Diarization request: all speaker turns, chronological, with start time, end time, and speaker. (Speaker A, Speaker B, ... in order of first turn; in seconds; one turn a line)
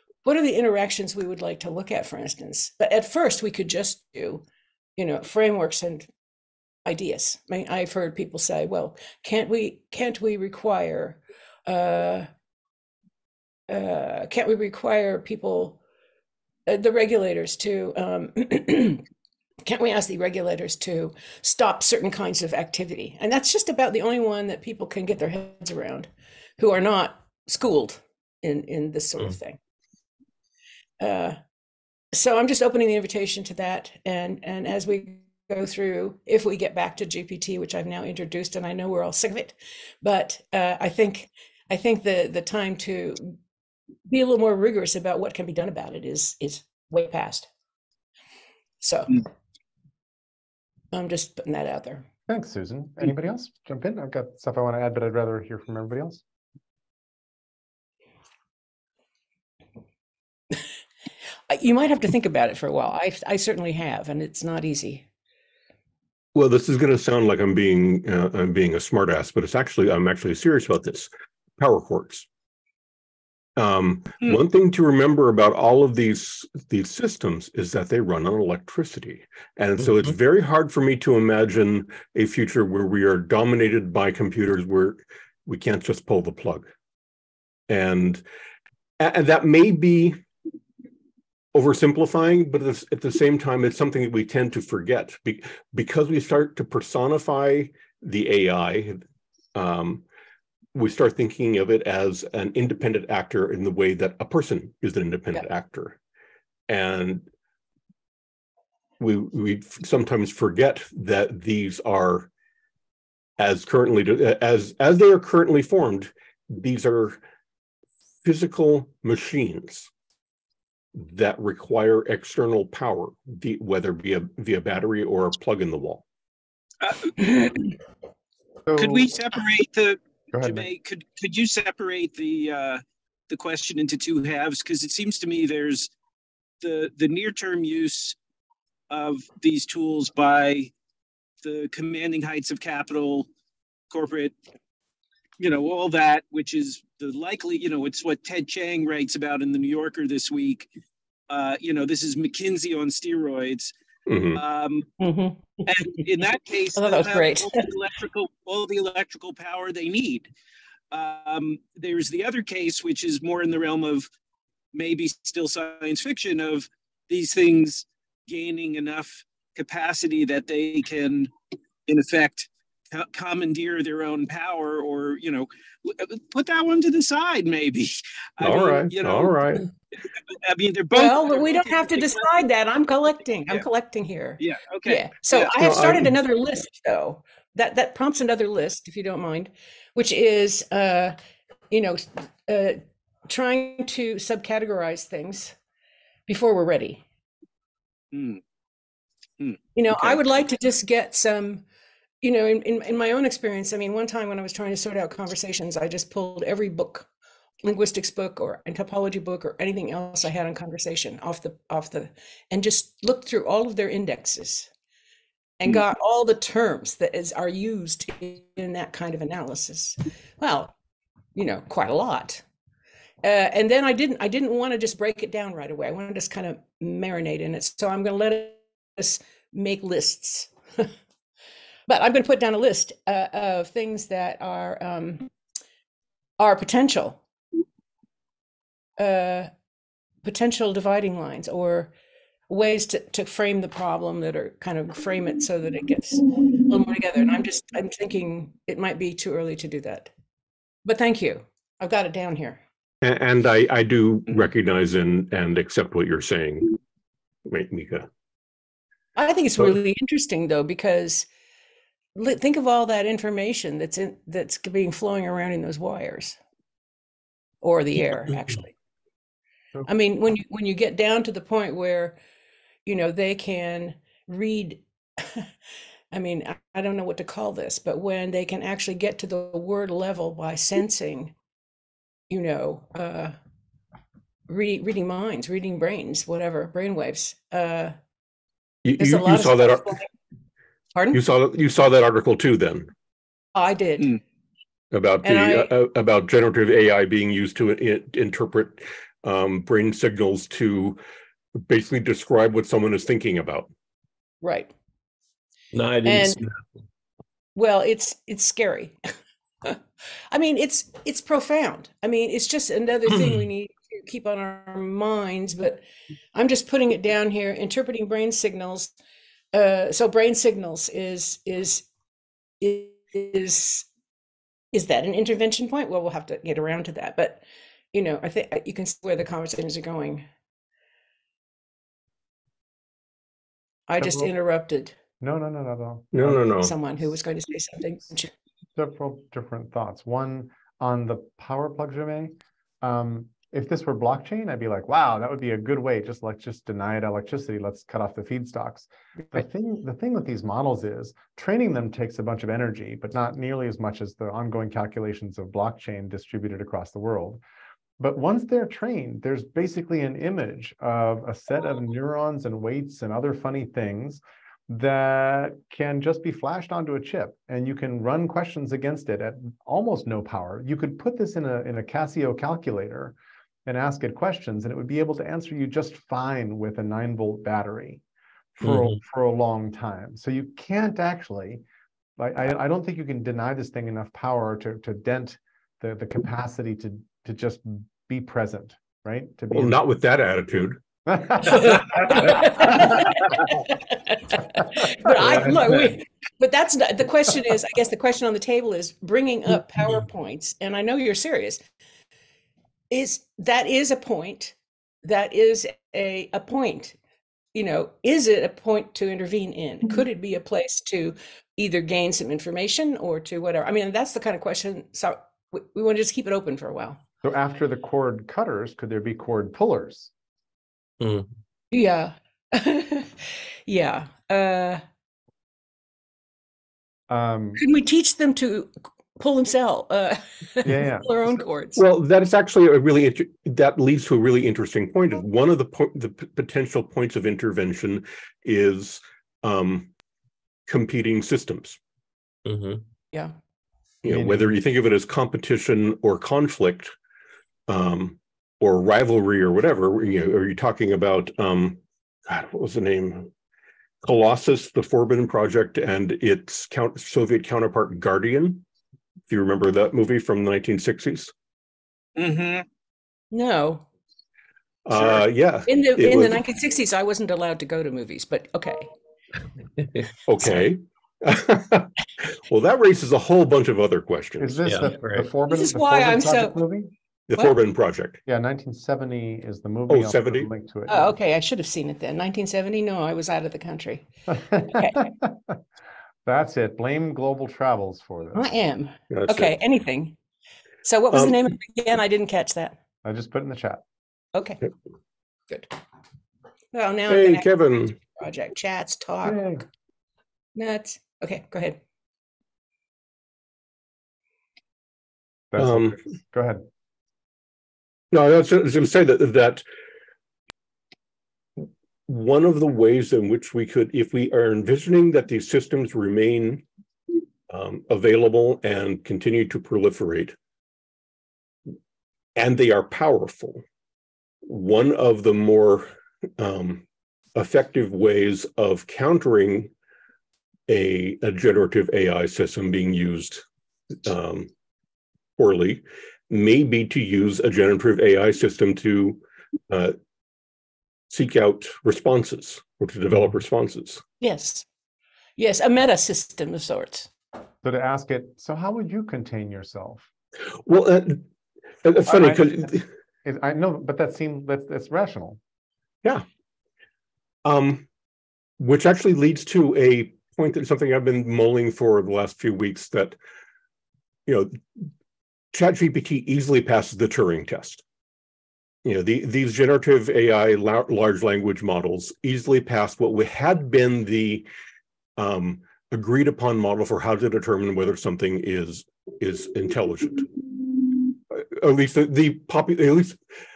Speaker A: 0.2-4.4
Speaker A: 5.0-6.1
Speaker A: 6.9-12.3
Speaker A: 13.7-15.8
Speaker A: 16.7-19.0
Speaker A: 19.6-29.6
Speaker A: 31.0-31.4
Speaker A: 32.1-43.4
Speaker A: 44.1-47.5
Speaker A: 48.8-49.2
Speaker A: 50.9-52.1
Speaker B: 52.3-56.2
Speaker A: 61.5-65.0
Speaker C: 66.3-72.3
Speaker C: 73.6-86.7
Speaker D: 79.8-80.1
Speaker C: 87.7-88.2
Speaker C: 89.0-90.2
Speaker C: 91.5-99.0
Speaker C: 99.5-100.0
Speaker C: 100.7-106.0
Speaker C: 106.7-107.3
Speaker C: 109.0-112.3
Speaker C: 113.4-117.2
Speaker C: 118.2-119.9
Speaker C: 121.0-126.0
Speaker E: 126.8-127.8
Speaker B: 128.7-129.1
Speaker E: 128.8-135.9
Speaker B: 130.3-130.7
Speaker E: 136.6-138.2
Speaker E: 138.9-140.7
Speaker E: 141.4-143.3
Speaker E: 143.9-144.3
Speaker E: 145.4-150.7
Speaker E: 151.3-153.7
Speaker C: 154.1-154.4
Speaker E: 154.3-154.9
Speaker A: 155.0-155.7
Speaker E: 155.7-160.3
Speaker A: 156.8-157.6
Speaker E: 160.9-164.1
Speaker E: 164.7-171.3
Speaker E: 171.9-179.6
Speaker C: 178.4-179.7
Speaker E: 180.3-182.3
Speaker A: 180.9-191.2
Speaker E: 184.4-185.6
Speaker C: 185.6-186.1
Speaker A: 191.7-195.6
Speaker A: 196.3-197.0
Speaker E: 198.1-198.4
Speaker E: 199.4-200.2
Speaker A: 199.8-201.6
Speaker A: 202.2-207.1
Speaker A: 207.6-214.7
Speaker A: 215.6-220.7
Speaker A: 221.3-222.4
Speaker A: 223.2-230.9
Speaker A: 231.9-235.3
Speaker A: 236.4-237.2
Speaker A: 239.0-239.5
Speaker A: 240.2-241.9
Speaker A: 242.5-250.1
Speaker A: 250.8-252.6
Speaker C: 253.0-256.7
Speaker C: 257.5-258.1
Speaker A: 259.2-261.3
Speaker A: 262.2-266.4
Speaker A: 267.6-268.7
Speaker A: 269.9-272.2
Speaker A: 272.9-275.5
Speaker A: 276.1-281.3
Speaker A: 282.3-283.4
Speaker A: 284.5-287.9
Speaker C: 288.8-290.1
Speaker A: 289.0-290.1
Speaker A: 290.9-291.2
Speaker C: 291.1-292.9
Speaker A: 293.6-294.2
Speaker C: 294.9-301.0
Speaker A: 295.2-295.7
Speaker C: 301.6-303.7
Speaker A: 304.4-304.7
Speaker D: 305.7-306.5
Speaker A: 306.1-306.4
Speaker A: 307.6-309.0
Speaker A: 310.3-315.8
Speaker A: 316.3-318.9
Speaker A: 319.5-321.9
Speaker A: 322.6-323.9
Speaker A: 324.7-330.3
Speaker A: 333.9-335.0
Speaker B: 334.0-334.3
Speaker B: 335.2-336.5
Speaker C: 336.1-336.7
Speaker A: 336.6-338.3
Speaker B: 338.8-357.4
Speaker B: 358.0-373.1
Speaker B: 373.7-378.0
Speaker B: 378.6-381.6
Speaker D: 378.6-379.0
Speaker B: 382.2-389.8
Speaker C: 389.5-390.8
Speaker B: 391.1-391.8
Speaker A: 392.1-401.6
Speaker A: 402.9-407.0
Speaker A: 407.6-417.0
Speaker B: 417.2-420.1
Speaker D: 421.0-421.3
Speaker A: 421.7-424.8
Speaker B: 427.1-427.6
Speaker A: 427.6-431.8
Speaker B: 430.6-431.3
Speaker C: 431.8-439.9
Speaker C: 440.7-441.8
Speaker D: 442.4-442.8
Speaker C: 444.0-446.9
Speaker B: 444.1-444.6
Speaker C: 447.7-453.3
Speaker C: 454.0-458.6
Speaker C: 459.3-461.3
Speaker E: 462.2-462.6
Speaker A: 463.3-463.9
Speaker C: 464.9-466.4
Speaker A: 465.7-468.9
Speaker C: 470.3-474.9
Speaker B: 474.4-476.9
Speaker D: 474.7-475.3
Speaker A: 475.5-476.6
Speaker C: 477.3-478.2
Speaker B: 478.3-481.1
Speaker C: 479.9-480.5
Speaker A: 480.9-484.1
Speaker B: 484.3-485.6
Speaker A: 484.6-485.1
Speaker B: 486.3-488.5
Speaker A: 488.4-490.2
Speaker C: 489.1-489.6
Speaker A: 490.8-492.8
Speaker C: 491.1-491.4
Speaker B: 493.0-493.8
Speaker A: 494.4-494.6
Speaker A: 496.7-499.6
Speaker C: 497.1-498.0
Speaker B: 499.2-499.6
Speaker A: 500.6-501.8
Speaker B: 505.5-506.7
Speaker C: 505.6-505.9
Speaker C: 508.1-509.6
Speaker C: 511.6-516.6
Speaker C: 517.5-520.4
Speaker C: 522.4-523.6
Speaker C: 524.5-526.8
Speaker C: 527.4-529.7
Speaker C: 530.7-533.4
Speaker C: 534.0-534.5
Speaker C: 535.4-540.0
Speaker C: 541.1-544.0
Speaker A: 544.2-544.7
Speaker A: 545.4-547.1
Speaker B: 547.6-550.1
Speaker C: 550.5-551.3
Speaker C: 551.8-552.9
Speaker B: 552.1-552.6
Speaker B: 553.2-555.4
Speaker C: 557.4-557.9
Speaker C: 558.6-563.2
Speaker C: 564.3-564.9
Speaker C: 565.5-567.8
Speaker C: 568.8-574.5
Speaker C: 575.2-580.3
Speaker C: 581.3-583.2